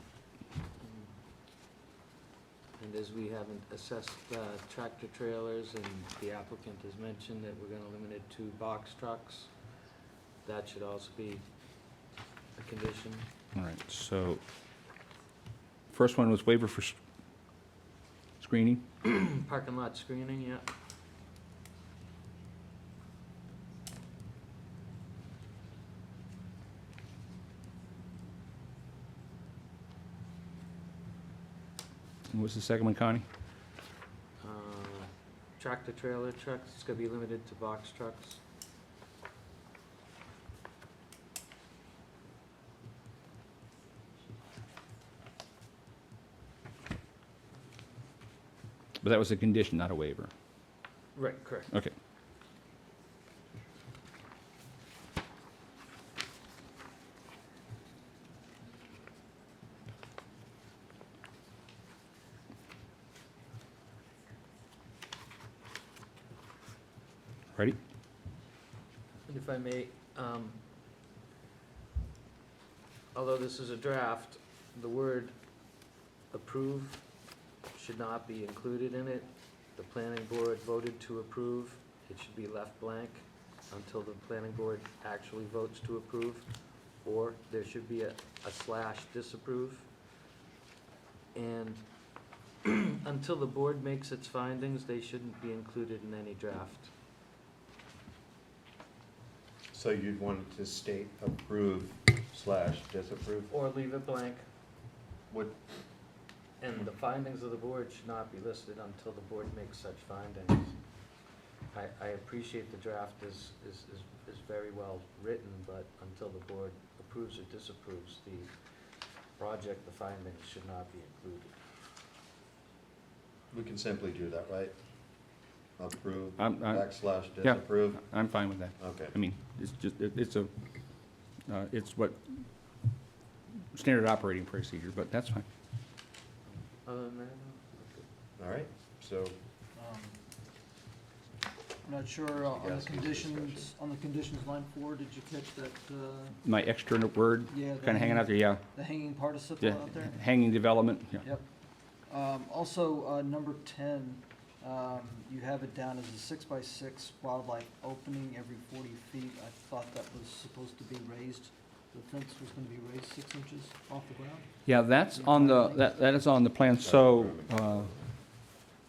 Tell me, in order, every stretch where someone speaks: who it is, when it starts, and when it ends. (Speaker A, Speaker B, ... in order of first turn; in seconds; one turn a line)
Speaker A: 0.8-1.1
Speaker A: 2.8-9.5
Speaker A: 10.4-11.4
Speaker A: 12.6-13.3
Speaker B: 13.6-14.4
Speaker B: 15.9-17.0
Speaker B: 18.4-18.9
Speaker A: 19.0-20.7
Speaker B: 32.3-33.2
Speaker A: 34.4-38.4
Speaker B: 49.0-50.3
Speaker A: 51.1-51.7
Speaker A: 69.3-70.6
Speaker A: 73.1-75.3
Speaker A: 76.3-77.0
Speaker A: 77.7-86.5
Speaker A: 87.0-89.9
Speaker A: 91.3-91.8
Speaker A: 92.6-96.9
Speaker C: 99.7-103.5
Speaker A: 103.5-104.4
Speaker C: 105.3-105.6
Speaker A: 106.6-110.8
Speaker A: 111.7-118.5
Speaker A: 119.4-121.5
Speaker C: 123.5-124.8
Speaker C: 125.8-129.1
Speaker B: 126.4-130.5
Speaker B: 131.5-132.4
Speaker B: 133.7-135.5
Speaker A: 136.5-138.1
Speaker C: 138.4-139.4
Speaker D: 139.8-140.2
Speaker D: 141.8-146.4
Speaker C: 142.3-143.8
Speaker B: 146.4-148.7
Speaker D: 147.5-150.2
Speaker B: 149.6-151.3
Speaker D: 152.1-164.5
Speaker B: 164.7-167.9
Speaker D: 165.1-165.8
Speaker C: 166.8-168.0